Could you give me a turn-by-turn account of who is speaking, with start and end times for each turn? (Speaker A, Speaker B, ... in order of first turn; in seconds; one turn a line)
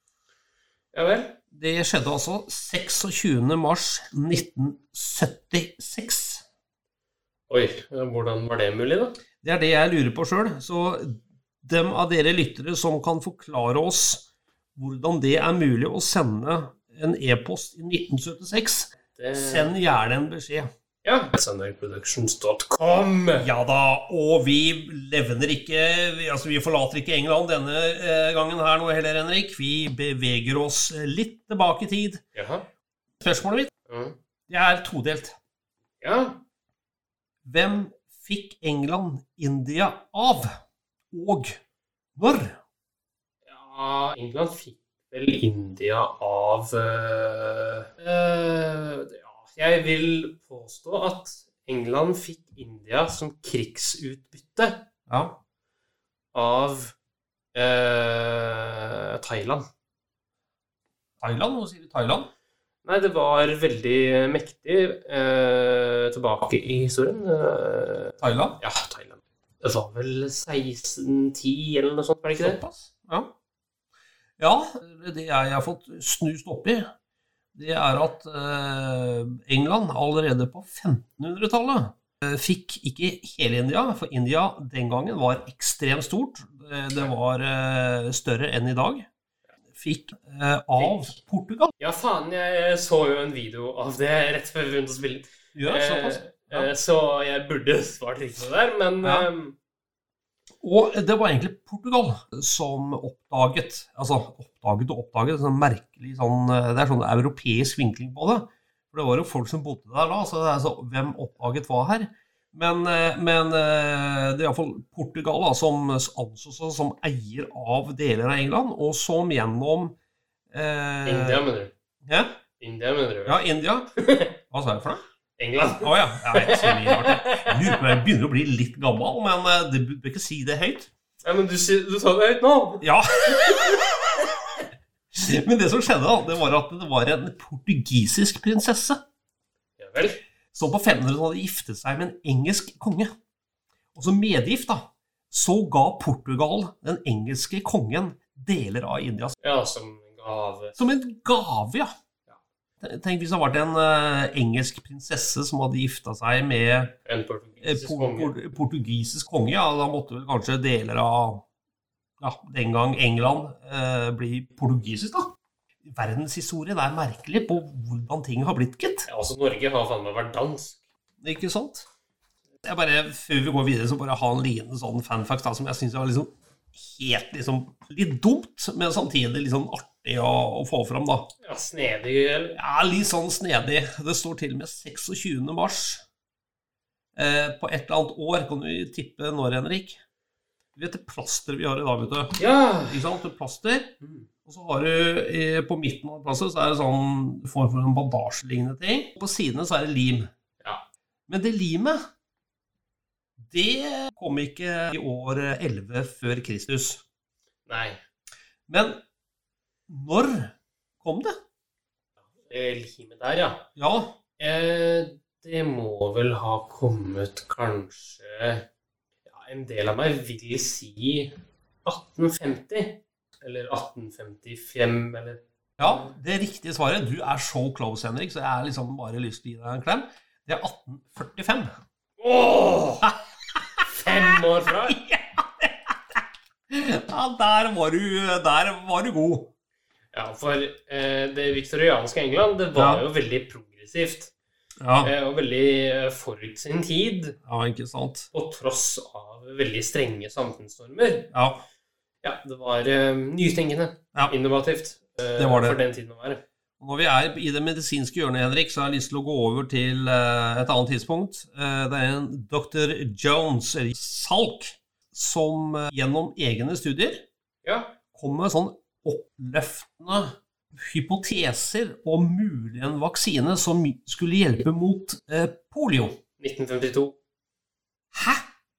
Speaker A: 0.9-1.4
Speaker B: 1.5-6.4
Speaker A: 7.5-9.2
Speaker B: 9.4-14.3
Speaker B: 14.8-20.7
Speaker A: 19.1-19.7
Speaker A: 21.0-23.5
Speaker B: 23.4-32.2
Speaker A: 32.3-32.7
Speaker B: 33.2-33.7
Speaker A: 33.9-34.2
Speaker B: 34.5-35.4
Speaker A: 36.0-36.4
Speaker B: 37.5-40.5
Speaker B: 41.1-41.6
Speaker B: 42.2-42.6
Speaker A: 43.5-54.9
Speaker B: 55.1-55.4
Speaker A: 56.3-57.0
Speaker A: 57.5-59.7
Speaker B: 61.2-62.3
Speaker A: 62.9-72.6
Speaker B: 68.2-68.6
Speaker B: 72.4-73.3
Speaker B: 74.4-76.9
Speaker B: 77.5-89.1
Speaker B: 89.8-91.7
Speaker A: 90.8-91.1
Speaker A: 91.8-99.6
Speaker B: 95.5-96.7
Speaker B: 99.0-99.3
Speaker B: 100.6-120.0
Speaker B: 120.5-121.4
Speaker A: 121.0-121.7
Speaker A: 122.6-123.4
Speaker B: 123.3-123.9
Speaker A: 124.0-124.3
Speaker B: 124.5-125.0
Speaker A: 125.4-127.7
Speaker B: 125.8-130.9
Speaker A: 131.2-132.8
Speaker B: 132.8-134.3
Speaker A: 133.4-133.7
Speaker B: 135.1-139.0
Speaker A: 139.8-140.2
Speaker B: 140.5-143.1
Speaker B: 143.9-149.3
Speaker A: 149.4-150.8
Speaker B: 150.8-151.9
Speaker B: 152.8-156.9
Speaker A: 157.1-158.3
Speaker B: 157.6-161.4
Speaker B: 162.2-169.1
Speaker A: 169.1-170.8
Speaker B: 171.2-171.9
Speaker B: 172.7-181.3
Speaker A: 181.4-182.6
Speaker B: 182.6-186.0
Speaker B: 187.2-190.0
Speaker B: 190.8-193.9
Speaker A: 192.4-193.0
Speaker A: 194.0-194.3
Speaker B: 194.5-200.3
Speaker B: 201.3-202.0
Speaker B: 203.4-207.0
Speaker A: 207.7-208.0
Speaker B: 208.7-209.0
Speaker B: 209.9-211.3
Speaker A: 212.5-213.7
Speaker B: 213.8-214.2
Speaker A: 214.4-218.7
Speaker A: 219.3-226.1
Speaker B: 225.8-231.7
Speaker A: 232.2-233.1
Speaker B: 233.8-234.3
Speaker A: 233.9-235.0
Speaker B: 234.9-239.5
Speaker A: 240.1-244.3
Speaker B: 242.8-243.0
Speaker B: 244.8-245.1
Speaker A: 245.0-247.4
Speaker B: 247.5-248.3
Speaker A: 248.3-251.3
Speaker B: 251.3-251.6
Speaker A: 252.2-256.4
Speaker B: 255.4-255.8
Speaker B: 256.8-267.2
Speaker A: 267.6-268.0
Speaker B: 268.1-276.2
Speaker A: 276.4-277.2
Speaker B: 278.1-278.4